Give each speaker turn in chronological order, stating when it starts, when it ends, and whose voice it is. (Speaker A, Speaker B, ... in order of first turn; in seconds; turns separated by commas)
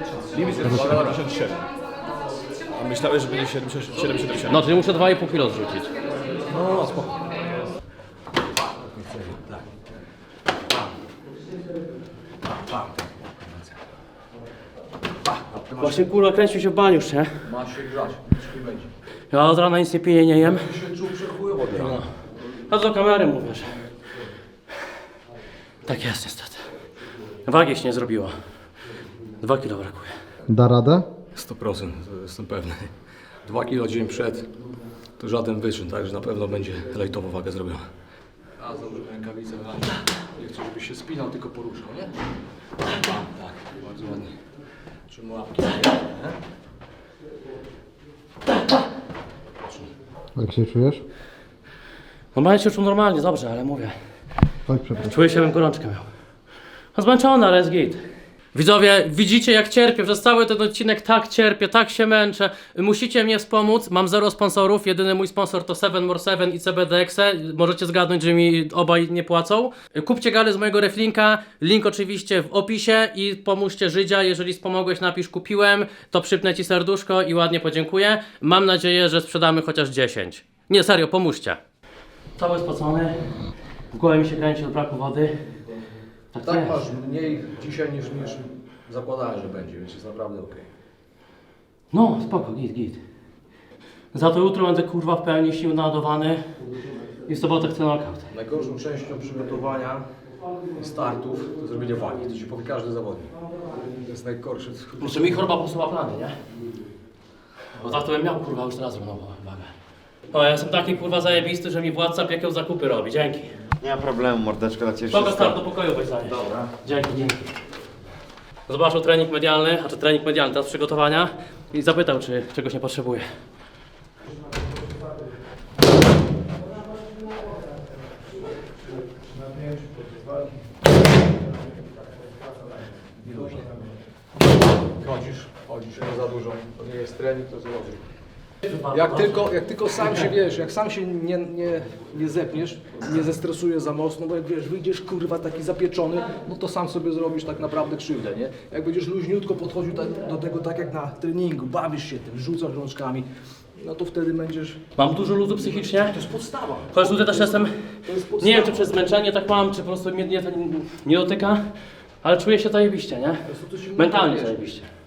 Speaker A: 0.2-1.6, Speaker B: 0.6-1.1, Speaker A: 2.7-4.6, Speaker C: 4.5-5.9, Speaker A: 6.5-7.5, Speaker A: 8.5-9.7, Speaker A: 12.4-13.8, Speaker A: 15.2-16.1, Speaker C: 15.8-17.4, Speaker A: 17.4-18.9, Speaker C: 19.3-20.6, Speaker A: 20.4-22.0, Speaker C: 21.7-22.1, Speaker C: 22.7-23.8, Speaker C: 25.9-26.6, Speaker C: 27.4-28.3, Speaker C: 29.4-30.1, Speaker B: 30.5-31.1, Speaker A: 31.4-32.9, Speaker A: 33.4-34.5, Speaker A: 35.2-37.9, Speaker A: 38.6-42.1, Speaker A: 42.8-44.4, Speaker A: 45.1-46.4, Speaker A: 49.6-49.9, Speaker B: 50.4-51.0, Speaker C: 52.3-53.9, Speaker B: 54.7-55.1, Speaker C: 55.0-56.1, Speaker C: 56.9-58.0, Speaker C: 58.5-81.6, Speaker C: 82.4-83.2, Speaker C: 83.9-85.4, Speaker C: 86.3-86.8, Speaker A: 86.4-90.7, Speaker C: 91.9-93.0, Speaker C: 94.1-96.4, Speaker C: 97.3-98.2, Speaker A: 98.3-100.0, Speaker A: 100.8-103.3, Speaker A: 104.0-105.5, Speaker C: 105.0-106.3, Speaker C: 107.8-109.7, Speaker C: 110.3-113.6, Speaker D: 113.8-115.6, Speaker C: 115.1-117.5, Speaker D: 116.3-116.7, Speaker C: 118.7-123.3, Speaker A: 133.2-133.7, Speaker A: 135.0-138.0, Speaker C: 138.6-139.5, Speaker A: 138.9-154.8, Speaker C: 155.0-156.2, Speaker A: 155.6-159.1, Speaker C: 156.9-161.7, Speaker C: 162.2-164.9, Speaker A: 163.5-164.6